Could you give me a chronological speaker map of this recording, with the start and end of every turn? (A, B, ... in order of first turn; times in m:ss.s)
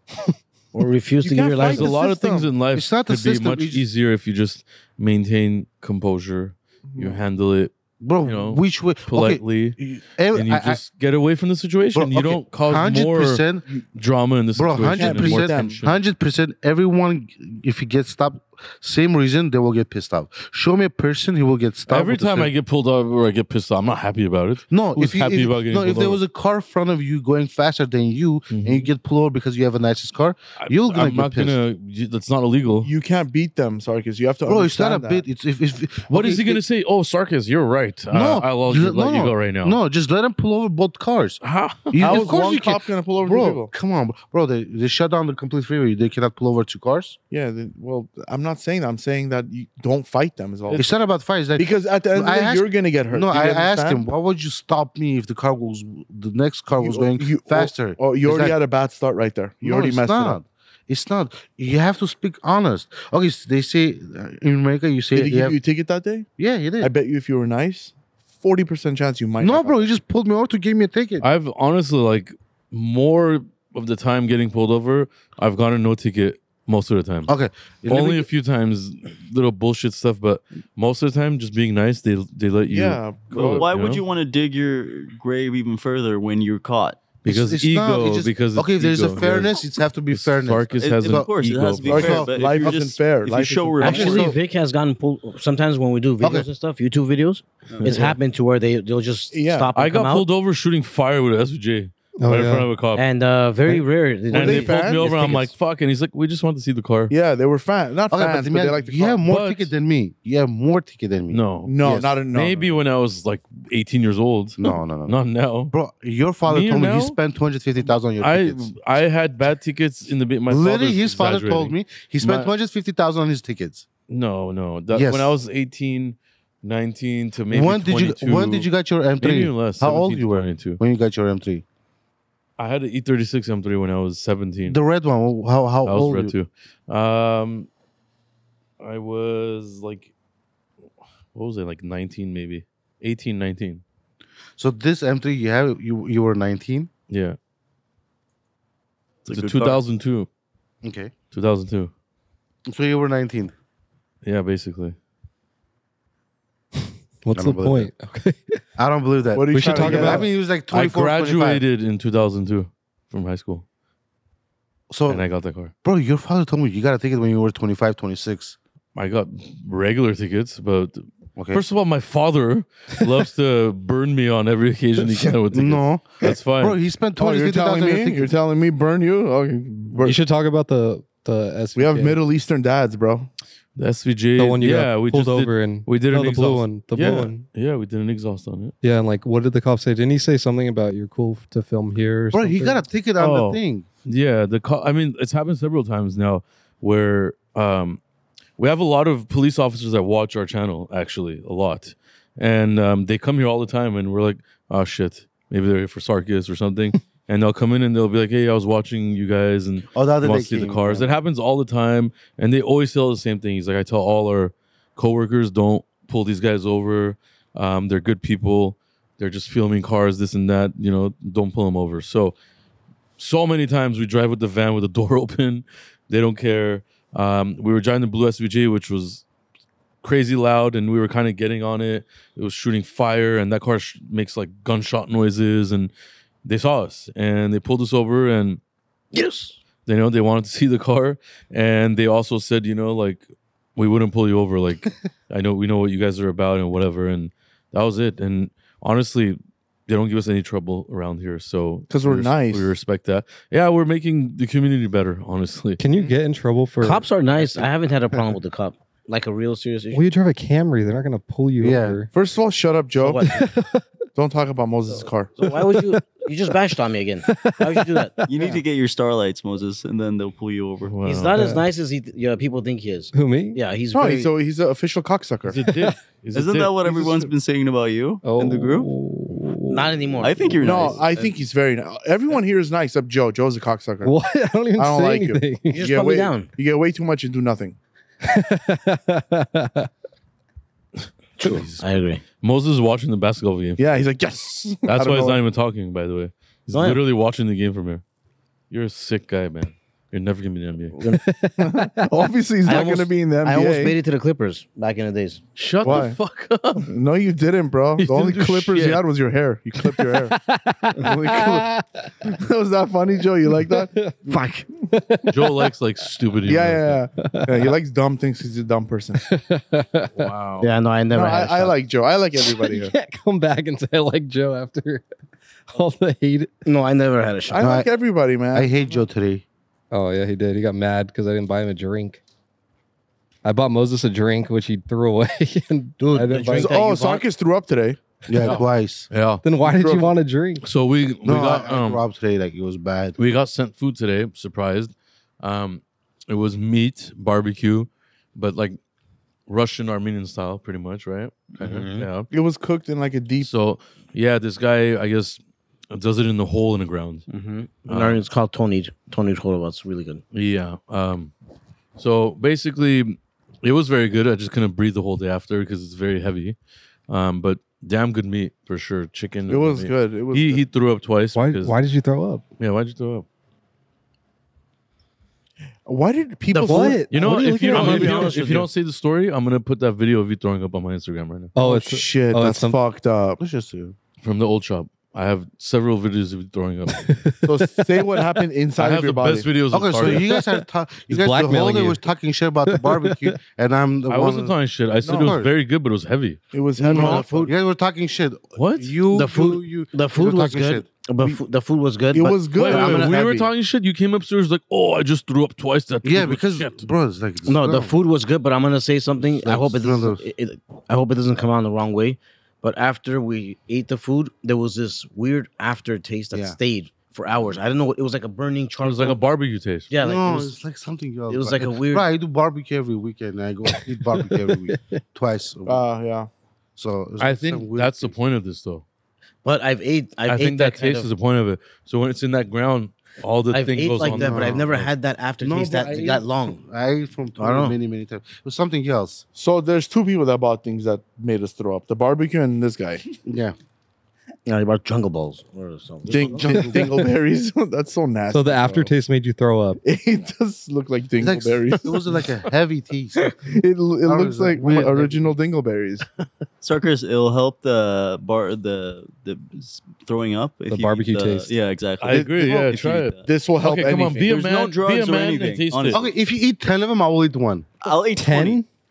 0:00.7-0:02.0 A
0:01.2-0:02.5 B
0:01.6-0:09.8 C
0:02.7-0:03.9 D
0:06.9-0:07.2 B
0:08.0-0:10.8 D
0:10.3-0:16.0 C
0:12.0-0:13.7 D
0:14.6-0:22.5 D
0:15.0-0:15.8 B
0:21.9-0:26.2 C
0:24.7-0:31.6 D
0:28.5-0:28.9 C
0:30.6-0:32.9 C
0:32.8-0:35.2 B
0:34.5-0:36.6 D
0:36.1-0:39.8 C
0:38.1-0:47.2 D
0:41.4-0:42.3 C
0:42.0-0:43.7 B
0:47.3-0:50.9 B
0:50.7-0:58.6 D
0:51.6-0:54.0 B
0:56.8-1:00.4 B
0:59.6-1:05.6 D
1:05.1-1:06.3 B
1:06.4-1:06.9 D
1:06.8-1:09.8 B
1:09.4-1:11.3 D
1:11.2-1:17.3 C
1:17.3-1:18.3 D
1:17.9-1:24.0 C
1:22.7-1:23.7 B
1:23.4-1:27.0 E
1:27.2-1:29.6 C
1:27.3-1:31.3 D
1:30.1-1:32.2 C
1:30.8-1:34.3 E
1:31.8-1:32.8 D
1:31.9-1:34.3 B
1:33.8-1:40.3 A
1:33.8-1:34.4 D
1:36.2-1:36.5 D
1:37.7-1:38.0 E
1:37.8-1:38.2 C
1:39.3-1:39.7 B
1:39.8-1:43.0 C
1:42.2-1:42.7 F
1:42.9-1:45.5 A
1:44.3-1:47.1 C
1:44.3-1:45.4 B
1:47.1-1:49.2 B
1:48.1-1:52.2 D
1:49.3-1:49.7 C
1:51.3-1:51.8 C
1:51.7-1:52.8 B
1:52.3-1:55.7 C
1:54.6-1:55.2 D
1:55.7-1:58.7 D
1:56.5-1:57.2 C
1:58.2-2:02.5 C
2:00.5-2:03.8 D
2:04.1-2:08.7 C
2:04.9-2:05.4 D
2:07.5-2:11.6 D
2:09.2-2:10.8 C
2:12.6-2:14.8 C
2:14.7-2:16.3 D
2:15.8-2:17.7 C
2:18.8-2:20.1 C
2:21.3-2:23.8 C
2:24.6-2:26.9 D
2:27.1-2:27.4 C
2:29.2-2:29.8 E
2:29.3-2:30.3 C
2:30.8-2:31.1 D
2:31.3-2:31.9 C
2:32.7-2:33.5 D
2:34.2-2:35.0 C
2:37.2-2:38.6 F
2:37.3-2:37.9 D
2:38.8-2:41.6 D
2:39.4-2:40.3 B
2:39.5-2:40.3 F
2:40.7-2:43.6 C
2:44.9-2:45.3 D
2:45.1-2:45.7 C
2:45.8-2:48.6 D
2:49.0-2:56.8 C
2:51.4-2:51.6 D
2:55.5-2:58.3 D
2:57.2-3:00.2 B
3:00.0-3:02.2 F
3:01.8-3:03.3 B
3:03.8-3:08.7 C
3:04.4-3:07.4 F
3:08.8-3:12.8 F
3:12.3-3:13.8 D
3:13.2-3:18.0 C
3:18.6-3:42.4 C
3:29.9-3:31.1 D
3:43.2-3:49.2 C
3:50.0-3:55.9 C
3:56.4-3:58.6 C
3:59.1-3:59.6 A
3:59.8-4:15.8 C
4:11.9-4:12.7 B
4:15.8-4:17.1 F
4:16.8-4:20.1 A
4:19.9-4:22.1 F
4:21.6-4:22.0 D
4:22.1-4:23.2 B
4:23.0-4:23.5 A
4:23.2-4:23.8 F
4:24.2-4:25.4 B
4:25.4-4:28.6 A
4:25.4-4:26.6 F
4:27.2-4:28.5 F
4:28.3-4:31.0 E
4:30.8-4:31.3 C
4:31.0-4:34.3 A
4:31.3-4:31.6 F
4:33.1-4:33.6 F
4:33.9-4:35.6 B
4:35.5-4:37.3 C
4:35.7-4:35.9 F
4:36.3-4:38.9 E
4:38.2-4:40.5 F
4:39.7-4:41.1 A
4:40.2-4:41.3 E
4:40.6-4:44.1 B
4:44.0-4:45.9 F
4:44.8-4:47.8 B
4:45.7-4:46.5 A
4:48.2-4:49.9 F
4:51.4-4:52.2 A
4:51.4-4:53.8 C
4:53.8-4:55.4 B
4:54.9-4:58.0 C
4:56.7-4:57.0 A
4:58.7-5:01.0 C
5:01.0-5:02.1 F
5:01.6-5:04.0 B
5:02.6-5:05.4 A
5:05.6-5:06.9 C
5:05.8-5:06.2 B
5:06.8-5:10.3 B
5:08.0-5:09.0 C
5:09.8-5:12.3 F
5:11.0-5:11.6 B
5:12.2-5:13.9 B
5:13.5-5:14.4 F
5:14.3-5:14.6 A
5:14.9-5:15.7 F
5:15.3-5:17.0 C
5:16.5-5:19.2 B
5:17.2-5:17.7 F
5:19.2-5:20.3 F
5:20.1-5:20.7 C
5:20.6-5:21.8 A
5:21.1-5:22.9 B
5:22.4-5:25.0 F
5:25.7-5:26.5 F
5:26.6-5:27.8 A
5:27.5-5:28.7 B
5:27.6-5:27.9 D
5:28.5-5:29.4 D
5:29.9-5:32.2 F
5:33.4-5:36.7 F
5:36.1-5:37.2 A
5:36.6-5:38.6 B
5:38.3-5:39.1 D
5:38.4-5:39.4 C
5:39.4-5:40.6 F
5:39.6-5:40.1 B
5:40.6-5:42.0 C
5:41.2-5:43.2 D
5:43.2-5:48.8 C
5:49.5-5:52.3 C
5:51.6-5:52.1 A
5:52.3-5:53.5 B
5:53.4-5:55.4 C
5:55.9-5:57.3 C
5:57.3-6:00.2 A
5:57.9-5:58.2 C
6:00.3-6:01.3 C
6:02.0-6:06.6 C
6:07.1-6:11.8 C
6:09.5-6:10.6 B
6:11.4-6:12.4 F
6:12.6-6:13.3 C
6:15.9-6:18.6 B
6:16.5-6:18.7 A
6:16.7-6:18.0 F
6:17.1-6:21.5 C
6:21.6-6:22.8 F
6:21.6-6:23.4 B
6:23.4-6:24.0 D
6:24.2-6:27.1 C
6:26.9-6:28.4 F
6:27.4-6:29.5 B
6:28.8-6:30.3 C
6:29.7-6:34.6 D
6:31.1-6:32.0 F
6:32.7-6:33.4 F
6:34.1-6:36.4 C
6:35.0-6:35.4 B
6:35.1-6:35.5 D
6:36.5-6:37.5 B
6:36.8-6:37.5 A
6:36.8-6:40.9 D
6:38.6-6:39.0 C
6:39.1-6:43.2 A
6:42.1-6:43.5 B
6:42.5-6:46.9 C
6:46.0-6:48.0 D
6:47.5-6:59.2 A
6:49.4-6:50.2 D
6:58.8-6:59.9 C
6:59.9-7:00.6 A
7:00.0-7:05.8 D
7:01.3-7:02.1 A
7:03.8-7:04.8 F
7:05.7-7:06.3 B
7:06.8-7:08.1 D
7:07.2-7:08.8 C
7:09.4-7:11.1 A
7:10.3-7:14.9 C
7:13.5-7:16.6 A
7:14.1-7:14.6 D
7:15.4-7:19.2 D
7:17.4-7:17.8 A
7:19.4-7:23.0 B
7:23.2-7:23.6 D
7:24.5-7:26.6 A
7:26.1-7:26.9 D
7:26.1-7:28.9 B
7:26.8-7:27.1 F
7:28.3-7:29.8 F
7:29.8-7:31.9 B
7:31.2-7:33.4 D
7:33.4-7:36.1 B
7:34.0-7:35.4 D
7:36.6-7:43.3 E
7:40.7-7:41.5 F
7:42.0-7:46.0 C
7:42.1-7:42.7 B
7:43.2-7:44.3 B
7:44.3-7:46.2 E
7:45.9-7:47.7 D
7:47.8-7:48.6 E
7:48.1-7:48.7 F